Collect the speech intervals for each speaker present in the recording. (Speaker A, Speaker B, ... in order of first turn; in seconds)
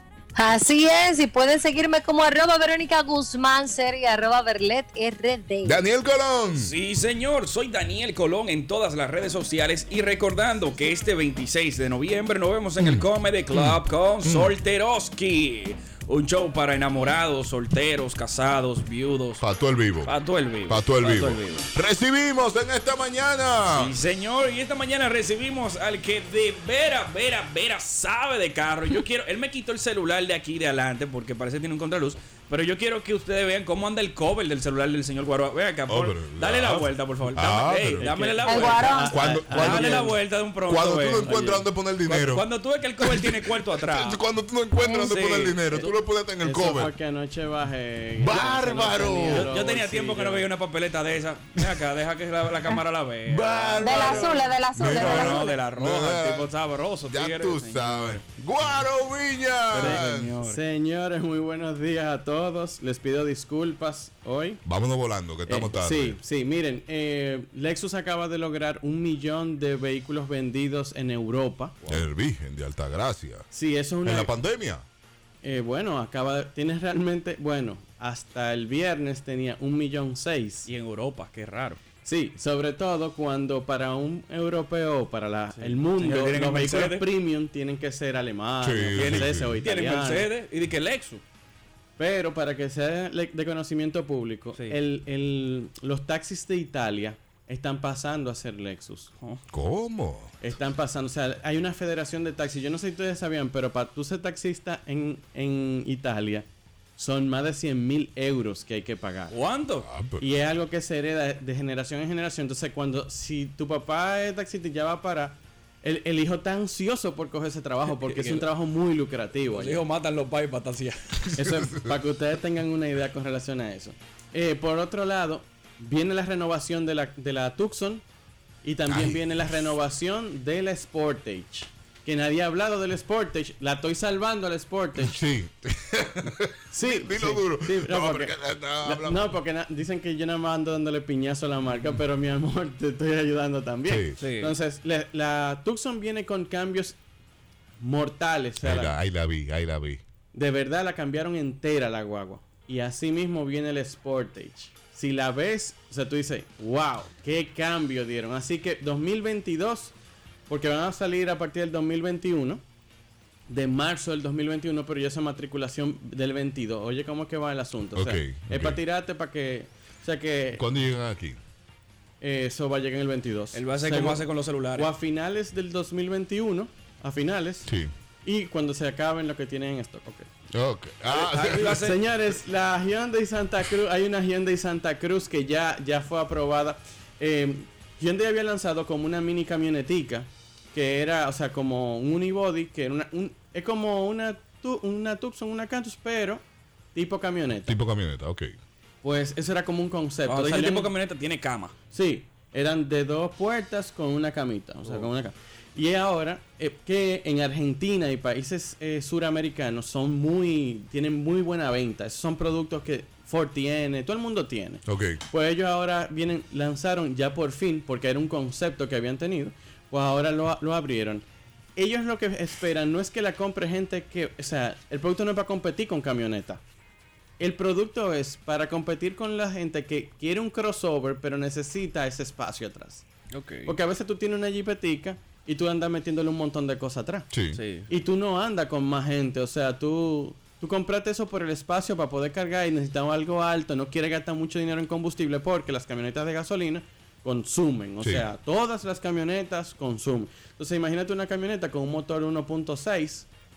Speaker A: 0.4-5.8, 38.4-39.4, 53.8-55.6
Speaker B: 5.6-6.7, 12.8-14.6, 19.4-20.1, 20.7-23.9, 35.9-38.1, 39.0-42.5, 43.0-46.9, 48.2-49.5, 53.3-56.5, 57.1-60.4, 64.7-66.2, 71.9-73.5, 74.0-74.8, 88.6-89.6, 99.5-100.4, 109.8-110.3, 121.5-121.9, 128.9-129.6, 135.1-139.3, 143.9-144.2, 148.6-150.0, 168.0-168.8, 170.6-171.4, 177.7-177.9, 180.5-181.8, 197.7-198.6, 214.9-215.2, 237.3-237.6, 248.0-248.3
Speaker C: 6.5-19.4, 20.0-21.7, 23.7-44.2, 44.9-45.6, 49.3-58.2, 59.7-60.6, 80.7-81.8, 85.5-87.1, 88.9-91.2, 109.3-109.9, 117.9-118.5, 119.5-121.4, 144.2-144.6, 173.5-174.9, 181.1-182.0, 200.3-201.7, 233.3-233.8, 237.5-237.9
Speaker D: 38.0-40.1, 46.4-50.5, 60.4-64.6, 65.5-71.8, 73.5-74.3, 75.4-80.7, 82.0-90.3, 92.0-99.1, 100.4-106.5, 107.0-109.3, 110.2-119.8, 121.4-128.0, 128.6-135.1, 136.7-147.0, 147.8-148.9, 150.3-159.9, 160.5-162.6, 163.5-170.6, 172.2-174.2, 174.8-177.7, 178.2-180.3, 181.8-196.4, 196.9-197.8, 199.0-200.9, 201.9-221.2, 221.8-226.6, 227.4-233.0, 233.7-237.3, 237.9-253.3